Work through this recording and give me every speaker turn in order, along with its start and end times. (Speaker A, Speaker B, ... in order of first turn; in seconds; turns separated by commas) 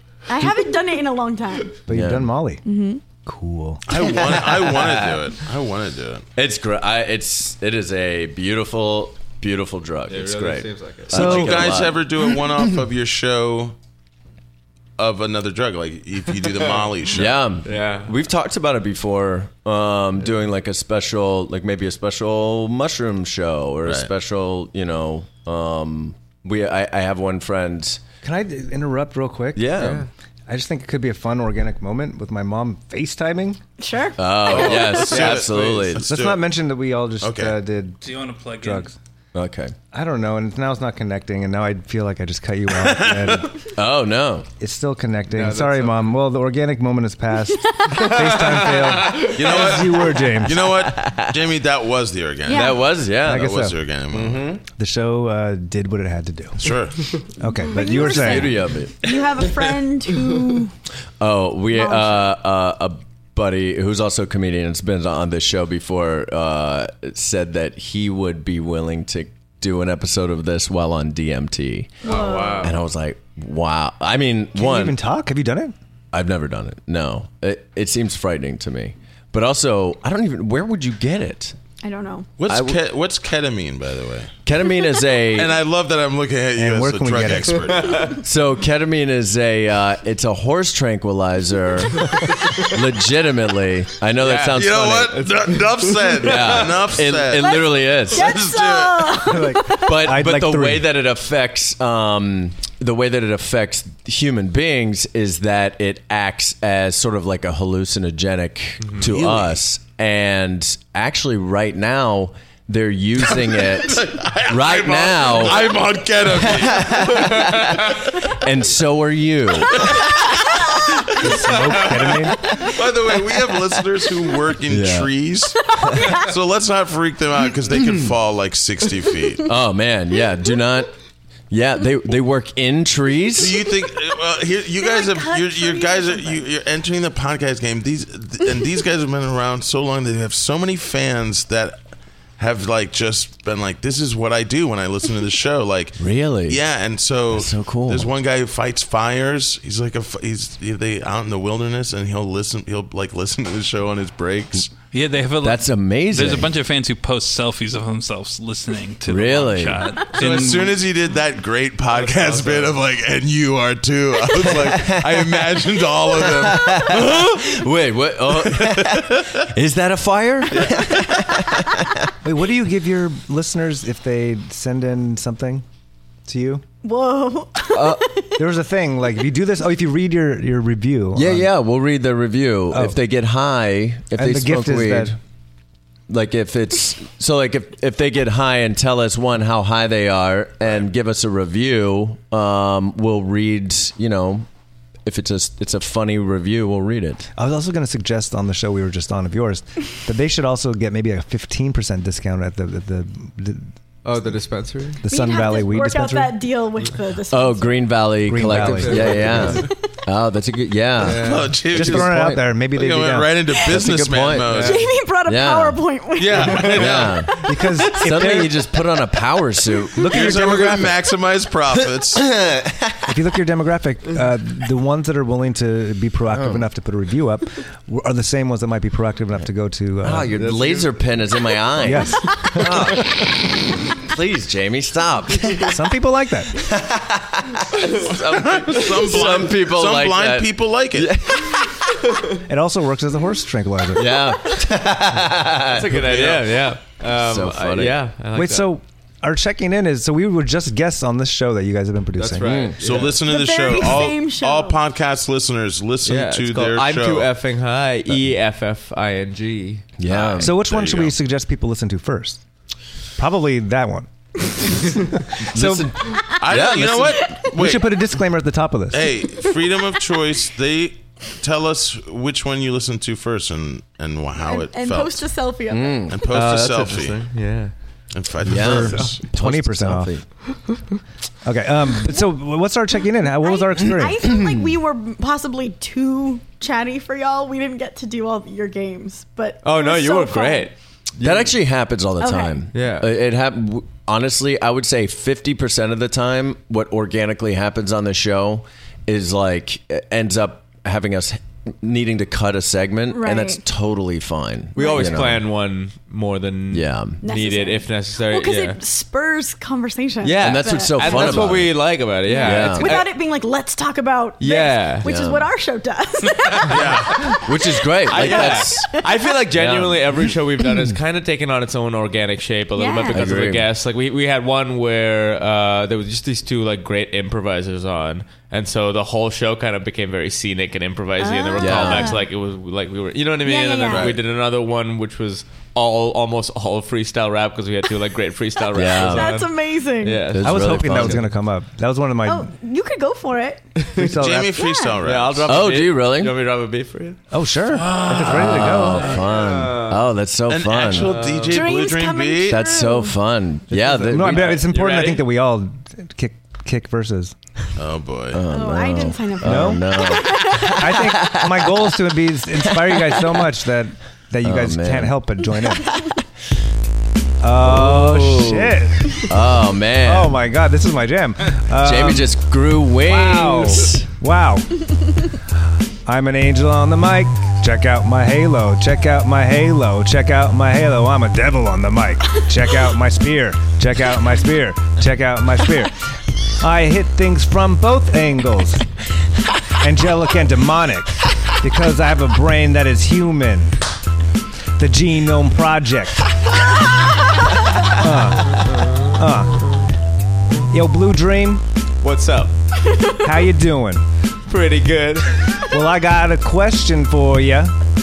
Speaker A: 0.2-1.8, Speaker B: 1.9-2.6, Speaker C: 1.9-2.3, Speaker A: 2.6-3.0, Speaker B: 3.2-3.9, Speaker D: 3.9-6.2, Speaker C: 6.4-12.6, Speaker E: 10.1-11.4, Speaker D: 11.1-13.7, Speaker B: 11.1-11.7, Speaker D: 15.0-17.3, Speaker C: 17.1-28.0, Speaker E: 17.6-18.1, Speaker B: 28.2-29.8, Speaker C: 29.5-30.1, Speaker E: 29.8-30.1, Speaker B: 30.5-33.6, Speaker A: 33.8-35.0, Speaker C: 34.2-36.1, Speaker D: 34.4-36.5, Speaker E: 34.9-35.8, Speaker B: 36.1-38.0, Speaker D: 37.2-37.6, Speaker F: 38.0-38.9, Speaker B: 38.6-38.9, Speaker C: 39.3-39.7, Speaker B: 39.9-43.5, Speaker D: 42.8-43.4, Speaker C: 43.7-44.5, Speaker B: 44.6-50.7, Speaker E: 45.3-46.1, Speaker A: 47.7-48.2, Speaker E: 47.9-49.9, Speaker D: 49.1-54.5, Speaker C: 50.6-51.4, Speaker A: 52.5-52.9, Speaker C: 52.5-53.5, Speaker B: 53.2-53.8, Speaker C: 54.1-54.6, Speaker B: 54.8-56.7, Speaker D: 56.6-57.1, Speaker B: 57.4-58.6, Speaker A: 57.5-60.7, Speaker C: 58.0-59.0, Speaker C: 61.2-75.0, Speaker A: 61.7-62.2, Speaker E: 72.0-72.7, Speaker A: 72.0-72.8, Speaker B: 74.5-75.7, Speaker C: 76.1-81.5, Speaker A: 81.8-82.3, Speaker D: 82.4-84.3, Speaker C: 82.5-82.8, Speaker C: 84.5-85.6, Speaker D: 85.3-88.2, Speaker B: 86.5-87.8, Speaker E: 87.8-88.1, Speaker C: 88.2-95.2, Speaker E: 94.2-96.7, Speaker D: 94.5-99.3, Speaker C: 96.2-98.5, Speaker A: 97.3-100.0, Speaker B: 99.2-100.9, Speaker C: 99.7-115.7, Speaker D: 109.0-109.5, Speaker D: 113.3-118.1, Speaker C: 116.3-120.0, Speaker D: 119.7-120.5, Speaker B: 121.1-122.4, Speaker D: 121.2-129.5, Speaker C: 124.7-125.1, Speaker A: 125.8-126.3, Speaker C: 127.7-128.1, Speaker C: 129.4-130.9, Speaker C: 131.5-133.6, Speaker D: 133.4-141.8, Speaker A: 134.8-136.5, Speaker D: 142.4-154.8, Speaker C: 146.0-146.6, Speaker C: 147.3-148.1, Speaker F: 154.9-160.9, Speaker C: 155.4-156.5, Speaker C: 159.1-159.8, Speaker D: 160.2-167.4, Speaker E: 161.9-162.8, Speaker C: 164.3-165.4, Speaker C: 166.1-172.0, Speaker D: 168.4-169.3, Speaker E: 170.5-170.8, Speaker B: 172.2-175.6, Speaker B: 176.2-176.6, Speaker A: 176.8-178.4, Speaker C: 177.7-178.1, Speaker B: 178.3-181.5, Speaker C: 181.1-185.2, Speaker B: 182.7-183.0, Speaker B: 184.1-185.1, Speaker C: 186.1-194.5, Speaker C: 195.0-197.3, Speaker B: 197.4-203.7, Speaker E: 204.0-205.0, Speaker B: 205.0-206.3, Speaker A: 205.1-207.9, Speaker C: 207.3-212.4, Speaker B: 208.2-209.6, Speaker E: 208.5-209.7, Speaker A: 209.6-209.9, Speaker E: 211.0-211.5, Speaker D: 211.2-214.9, Speaker B: 211.7-213.4, Speaker C: 213.6-214.6, Speaker E: 214.5-214.8, Speaker A: 214.6-216.9, Speaker C: 215.2-215.8, Speaker D: 216.2-217.3, Speaker E: 216.3-216.9, Speaker C: 216.7-220.9, Speaker B: 217.4-218.6, Speaker B: 219.9-220.8, Speaker D: 220.1-222.3, Speaker C: 222.1-223.1, Speaker B: 223.1-230.3, Speaker C: 226.3-226.7, Speaker C: 230.0-233.2, Speaker E: 230.4-231.0, Speaker B: 231.8-232.3, Speaker E: 232.5-232.9, Speaker C: 233.9-235.8, Speaker B: 235.7-236.6, Speaker C: 236.5-241.7, Speaker D: 237.9-241.2, Speaker B: 242.4-244.2, Speaker C: 243.9-246.6, Speaker E: 245.7-248.7, Speaker C: 247.1-248.0, Speaker B: 248.3-252.6, Speaker E: 252.2-253.2, Speaker C: 252.4-252.8, Speaker D: 252.8-257.3, Speaker A: 253.2-254.8, Speaker E: 256.0-259.9, Speaker C: 260.0-260.6, Speaker D: 260.1-261.1, Speaker B: 260.4-262.4, Speaker B: 263.2-265.9, Speaker C: 265.4-267.4, Speaker D: 266.4-268.0, Speaker A: 267.1-267.5, Speaker B: 267.5-269.1, Speaker D: 268.9-275.3, Speaker A: 274.4-276.4, Speaker C: 275.7-276.2, Speaker D: 276.1-277.2, Speaker E: 276.3-277.7, Speaker D: 278.1-279.2, Speaker C: 278.4-280.2, Speaker B: 278.6-280.1, Speaker B: 281.4-284.2, Speaker A: 283.4-290.7, Speaker C: 284.2-284.6, Speaker E: 289.6-291.5, Speaker C: 291.2-305.4, Speaker A: 292.2-292.6, Speaker E: 292.7-293.1, Speaker A: 303.1-303.6, Speaker E: 304.7-308.8, Speaker A: 304.8-305.2, Speaker C: 306.7-307.2, Speaker A: 307.2-311.6, Speaker E: 310.2-313.1, Speaker C: 310.4-313.0, Speaker A: 312.2-319.3, Speaker E: 314.4-315.1, Speaker C: 315.0-315.5, Speaker D: 316.7-317.3, Speaker E: 316.7-317.3, Speaker C: 317.4-319.0, Speaker E: 318.1-341.2, Speaker C: 319.5-320.2, Speaker A: 322.7-323.2, Speaker C: 323.1-323.7, Speaker A: 331.2-332.2, Speaker C: 331.6-332.2, Speaker A: 333.4-334.2, Speaker D: 333.9-334.2, Speaker C: 338.7-339.4, Speaker A: 338.8-340.3, Speaker C: 340.3-341.2, Speaker B: 340.4-342.5, Speaker A: 342.2-343.6, Speaker E: 343.8-344.1, Speaker B: 343.9-344.5, Speaker D: 344.1-345.7, Speaker A: 344.5-345.0, Speaker E: 345.0-347.2, Speaker C: 345.4-346.4, Speaker B: 347.3-349.1, Speaker D: 347.8-348.4, Speaker C: 348.1-351.1, Speaker E: 348.7-350.0, Speaker D: 350.5-352.6, Speaker E: 350.9-351.6, Speaker A: 351.5-353.2, Speaker C: 352.5-354.6, Speaker B: 353.7-357.3, Speaker E: 354.1-355.2, Speaker D: 357.8-358.4, Speaker C: 358.3-361.8, Speaker A: 358.5-360.9, Speaker B: 359.4-359.8, Speaker B: 360.6-365.9, Speaker C: 364.4-365.2, Speaker A: 365.8-366.1, Speaker B: 367.4-369.2, Speaker C: 367.6-370.4, Speaker B: 370.0-372.4, Speaker C: 371.8-374.1, Speaker B: 373.0-374.8, Speaker B: 376.1-386.0, Speaker B: 386.6-388.9, Speaker B: 389.7-393.8, Speaker B: 394.8-396.3, Speaker B: 397.9-399.8, Speaker E: 398.6-399.2, Speaker B: 400.7-401.6, Speaker E: 402.0-402.5, Speaker B: 403.2-404.0, Speaker E: 404.5-405.5, Speaker B: 405.7-407.7